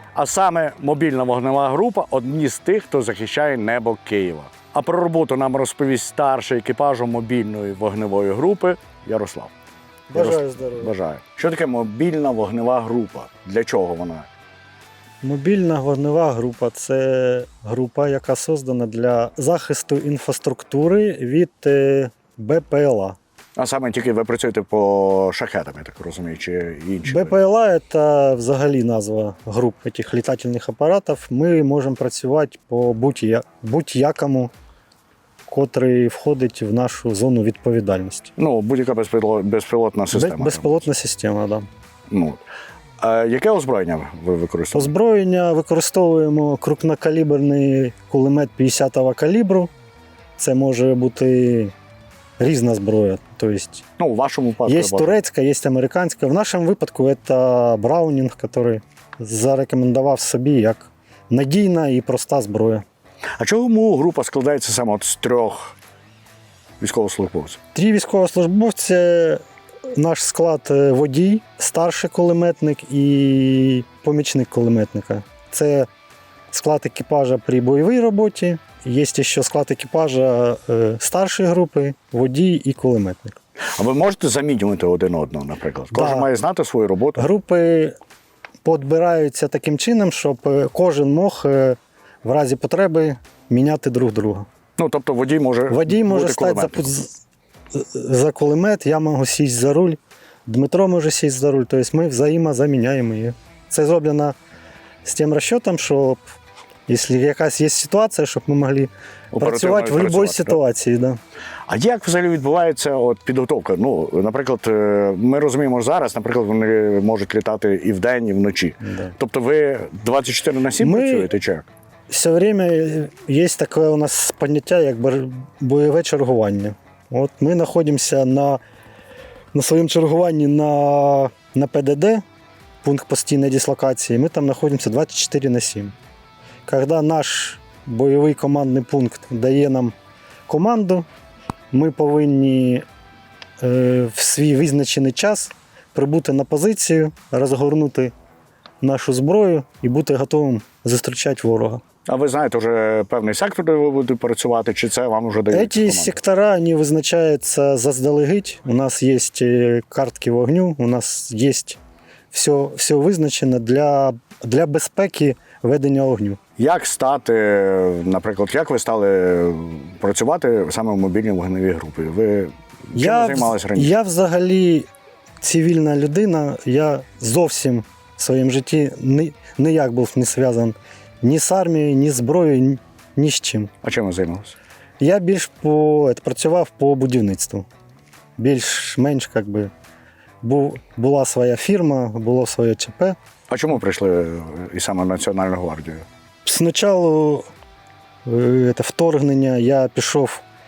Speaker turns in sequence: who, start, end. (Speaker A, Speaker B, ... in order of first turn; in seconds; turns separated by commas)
Speaker A: 0.1-9.5, Speaker B: 10.1-10.9, Speaker A: 10.2-14.3, Speaker B: 15.2-23.2, Speaker A: 23.6-27.4, Speaker B: 27.1-34.5, Speaker B: 35.5-38.3, Speaker A: 38.4-40.9, Speaker B: 40.1-41.7, Speaker A: 42.1-42.4, Speaker A: 43.0-44.9, Speaker B: 44.7-49.7, Speaker B: 50.4-51.7, Speaker B: 52.4-53.8, Speaker A: 54.0-55.2, Speaker B: 54.7-62.8, Speaker A: 63.4-65.8, Speaker A: 66.8-67.6, Speaker B: 67.7-75.9, Speaker B: 76.5-83.4, Speaker A: 83.6-87.3, Speaker B: 85.9-86.3, Speaker B: 87.2-88.0, Speaker B: 88.6-94.5, Speaker A: 94.8-96.9, Speaker B: 95.7-97.2, Speaker B: 97.7-104.4, Speaker B: 105.0-106.2, Speaker B: 106.9-111.2, Speaker A: 109.3-110.6, Speaker A: 111.7-121.7, Speaker B: 118.8-119.2, Speaker B: 120.8-121.3, Speaker B: 122.1-128.6, Speaker B: 129.5-132.2, Speaker B: 132.8-135.9, Speaker B: 136.7-139.9, Speaker B: 140.5-141.1, Speaker B: 141.7-142.8, Speaker B: 143.6-148.1, Speaker B: 148.8-151.8, Speaker A: 152.1-156.2, Speaker B: 155.5-161.8, Speaker B: 162.3-166.4, Speaker A: 166.6-173.9, Speaker B: 172.9-174.9, Speaker B: 175.4-183.7, Speaker A: 183.8-184.6, Speaker B: 185.0-187.7, Speaker B: 188.4-189.7, Speaker B: 190.4-193.2, Speaker A: 193.5-196.1, Speaker B: 196.4-197.5, Speaker B: 198.2-200.4